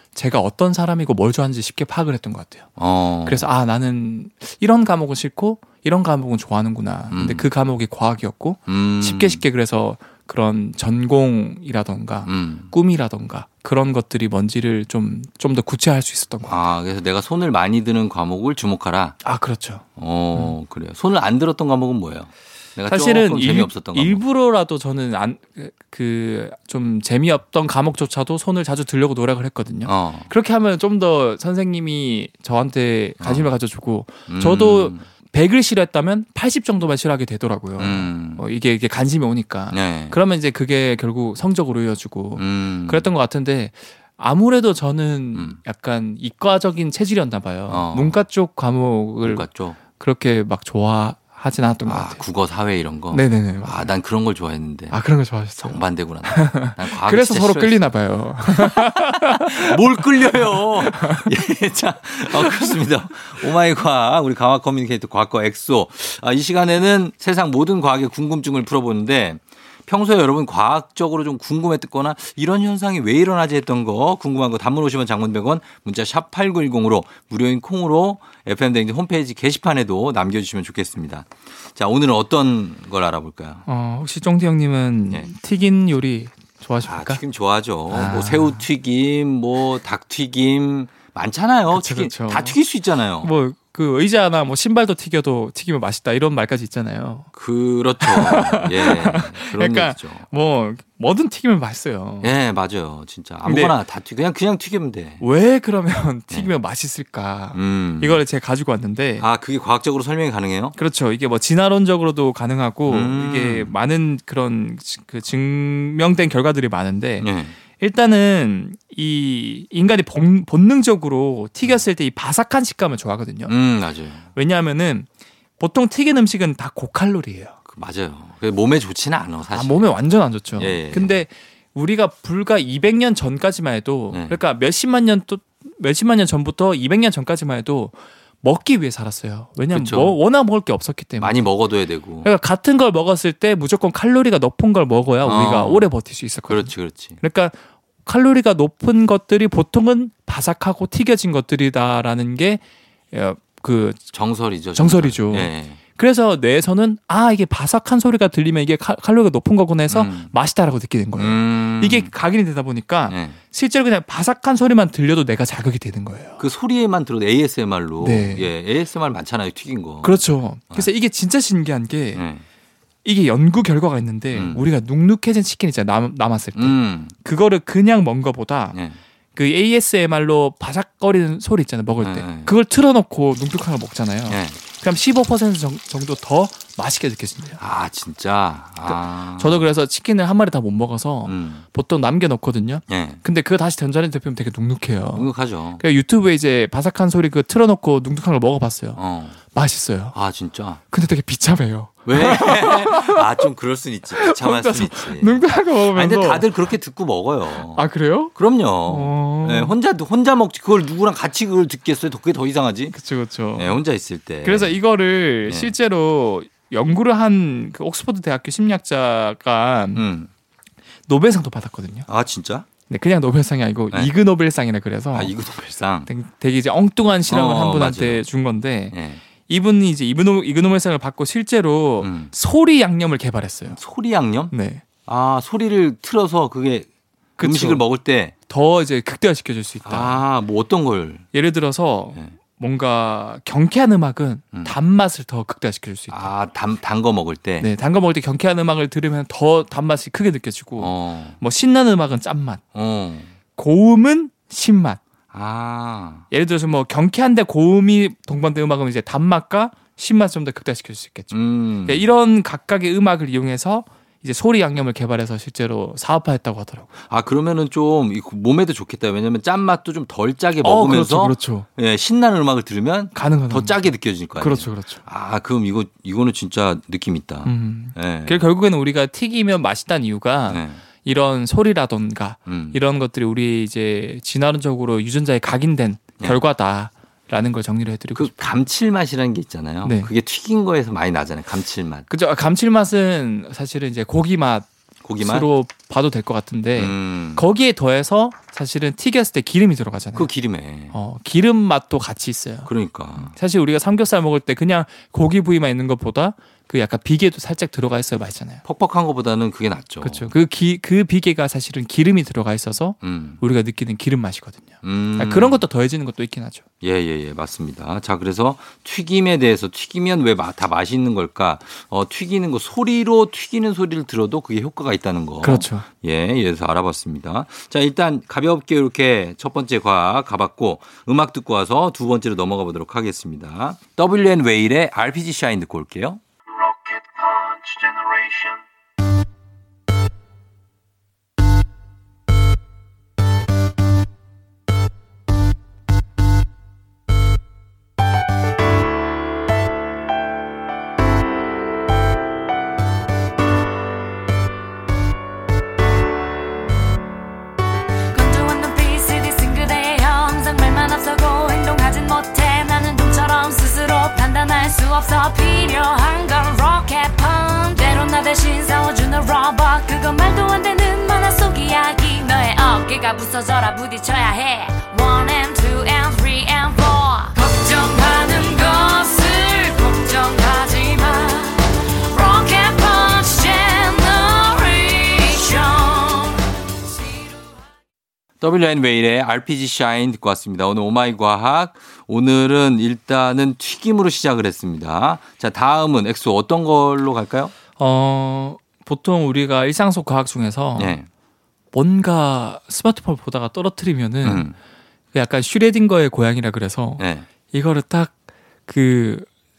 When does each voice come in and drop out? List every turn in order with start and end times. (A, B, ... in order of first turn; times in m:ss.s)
0:00.2-0:02.7 A
0:02.8-0:03.5 B
0:03.3-0:16.6 A
0:07.1-0:07.4 B
0:08.7-0:09.4 B
0:12.3-0:12.7 B
0:16.4-0:19.2 B
0:19.2-0:20.6 A
0:20.0-0:24.2 B
0:22.9-0:52.2 A
0:29.8-0:30.3 B
0:33.2-0:33.5 B
0:34.3-0:35.1 B
0:37.8-0:38.4 B
0:39.7-0:40.2 B
0:42.4-0:43.1 B
0:47.7-0:48.2 B
0:49.2-0:49.8 B
0:51.9-0:55.0 B
0:53.1-0:53.9 A
0:54.9-1:01.3 A
0:55.6-0:57.8 B
0:58.5-1:23.6 B
1:02.4-1:02.7 A
1:23.7-1:27.2 A
1:26.9-1:33.3 B
1:27.9-1:28.6 A
1:31.7-1:32.6 A
1:33.2-1:37.3 A
1:37.3-1:40.2 B
1:38.0-1:42.4 A
1:42.2-1:45.2 B
1:43.4-1:43.8 A
1:45.2-1:49.2 A
1:47.5-1:48.2 B
1:49.2-1:50.8 B
1:50.8-2:03.5 A
1:52.9-1:53.7 B
1:57.2-1:57.6 B
2:03.5-2:04.3 B
2:04.4-2:05.1 A
2:05.6-2:07.6 A
2:07.7-2:09.9 B
2:09.5-2:21.4 A
2:10.6-2:11.2 B
2:14.1-2:14.4 B
2:19.7-2:20.2 B
2:21.2-2:22.3 B
2:22.2-2:34.0 A
2:25.2-2:25.9 B
2:26.5-2:27.2 B
2:34.1-2:35.8 B
2:34.8-2:46.4 A
2:39.9-2:40.3 B
2:41.2-2:42.1 B
2:43.1-2:43.4 B
2:46.4-2:50.9 B
2:48.0-2:48.5 A
2:50.0-2:52.2 A
2:52.2-2:52.4 B
2:53.0-2:58.8 A
2:54.3-2:54.6 B
2:56.6-2:57.2 B
2:58.7-2:59.0 B
2:59.4-3:07.6 A
3:02.0-3:02.5 B
3:04.3-3:04.6 B
3:07.6-3:09.6 B
3:08.9-3:19.0 A
3:11.2-3:11.6 B
3:12.9-3:13.2 B
3:15.1-3:15.8 B
3:19.0-3:19.4 B
3:19.5-3:20.2 A
3:20.1-3:20.8 B
3:20.9-3:23.3 A
3:22.1-3:33.0 B
3:24.2-3:26.5 A
3:27.7-3:28.3 A
3:28.9-3:29.8 A
3:32.9-3:33.8 A
3:33.6-3:34.8 B
3:34.4-3:40.0 A
3:35.4-3:35.8 B
3:40.0-3:40.3 B
3:41.1-3:42.1 A
3:42.1-3:42.7 B
3:42.9-3:45.3 A
3:45.1-3:46.1 B
3:46.1-3:49.0 A
3:47.3-3:48.2 B
3:48.9-3:49.2 B
3:49.5-3:53.8 A
3:52.0-3:52.3 B
3:53.7-3:54.5 B
3:54.5-3:54.8 A
3:55.0-3:56.9 B
3:57.4-3:57.9 A
3:57.4-3:58.3 B
3:58.5-4:00.2 A
3:59.8-4:01.2 B
4:01.3-4:06.3 A
4:06.1-4:07.7 B
4:07.6-4:12.6 A
4:10.8-4:11.4 B
4:12.7-4:13.3 B
4:13.6-4:15.0 A
4:15.3-4:16.2 B
4:16.3-4:26.9 A
4:21.3-4:22.1 B
4:27.1-4:38.4 B
4:30.6-4:31.7 A
4:33.1-4:35.0 A
4:37.4-4:48.6 A
4:40.5-4:40.8 B
4:42.5-4:42.8 B
4:48.1-4:52.1 B
4:49.8-4:50.1 A
4:52.1-4:54.7 A
4:55.0-4:55.5 B
4:55.2-5:00.3 A
4:56.8-4:57.5 B
5:00.2-5:00.9 B
5:00.9-5:08.6 A
5:02.6-5:03.3 B
5:08.6-5:10.3 B
5:10.0-5:16.6 A
5:13.0-5:13.4 B
5:14.8-5:15.6 B
5:16.8-5:36.2 B
5:25.4-5:25.9 A
5:58.1-6:26.4 C
6:28.4-6:37.5 B
6:37.8-6:41.0 A
6:40.8-6:41.1 B
6:41.7-6:44.5 A
6:44.2-6:44.6 B
6:45.1-6:49.3 A
6:47.0-6:47.3 B